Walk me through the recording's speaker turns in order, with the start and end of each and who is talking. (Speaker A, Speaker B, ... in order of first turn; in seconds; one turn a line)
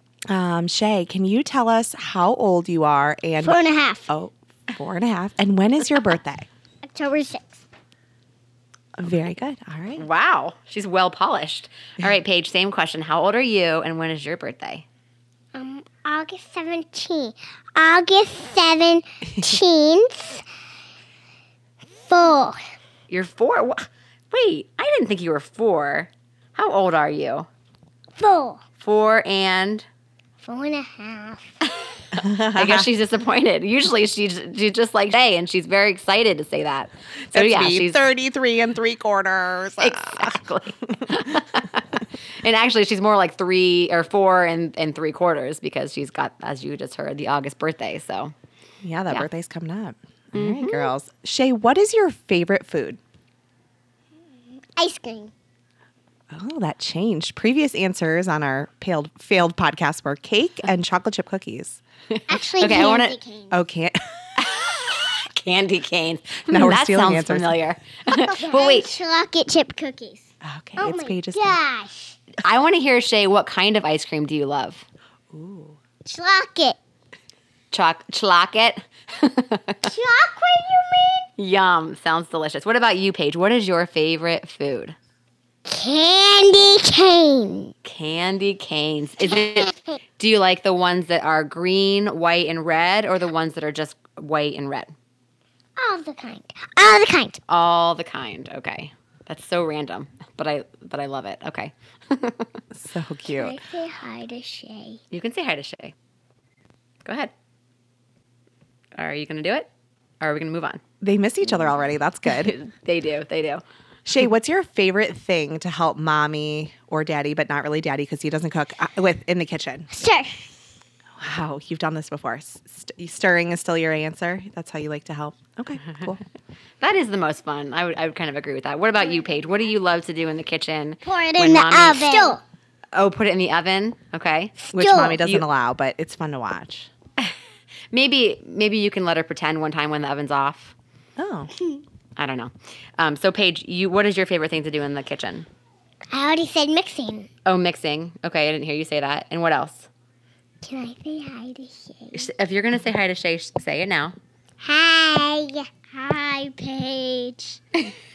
Speaker A: 0.3-6.5
Speaker B: 3.4-4.1
Speaker B: 6.8-7.6
Speaker A: 9.0-10.0
Speaker C: 10.0-14.8
Speaker B: 15.5-20.4
Speaker B: 22.1-22.6
Speaker C: 23.1-27.5
Speaker B: 28.2-28.6
Speaker C: 28.8-29.9
Speaker B: 30.4-31.4
Speaker A: 32.1-32.9
Speaker C: 32.2-38.0
Speaker A: 37.3-40.4
Speaker C: 39.8-48.3
Speaker A: 41.0-41.4
Speaker A: 48.8-53.0
Speaker C: 50.3-50.9
Speaker B: 54.8-55.3
Speaker A: 56.3-61.8
Speaker C: 62.1-63.1
Speaker B: 62.3-63.5
Speaker A: 63.5-64.0
Speaker C: 64.4-68.9
Speaker A: 66.5-67.5
Speaker B: 68.1-72.2
Speaker A: 70.4-71.6
Speaker C: 72.4-74.8
Speaker A: 75.3-75.8
Speaker B: 76.0-76.8
Speaker C: 77.7-79.9
Speaker B: 79.8-81.3
Speaker C: 81.4-85.0
Speaker B: 85.7-87.7
Speaker C: 87.8-94.9
Speaker B: 89.3-90.0
Speaker B: 95.8-97.4
Speaker C: 97.5-102.5
Speaker A: 102.7-103.6
Speaker B: 103.4-105.0
Speaker C: 105.1-105.9
Speaker C: 107.0-107.3
Speaker C: 109.0-109.7
Speaker C: 110.2-110.8
Speaker A: 111.0-112.5
Speaker C: 112.2-113.6
Speaker A: 114.0-119.9
Speaker B: 119.9-120.4
Speaker A: 121.2-126.2
Speaker C: 126.8-132.4
Speaker B: 131.0-132.4
Speaker C: 132.9-134.6
Speaker B: 134.6-135.2
Speaker A: 134.7-136.9
Speaker C: 137.9-140.7
Speaker A: 141.2-141.5
Speaker C: 142.2-145.5
Speaker B: 146.1-147.3
Speaker C: 147.4-149.9
Speaker B: 150.6-152.3
Speaker C: 152.1-154.1
Speaker B: 154.6-157.6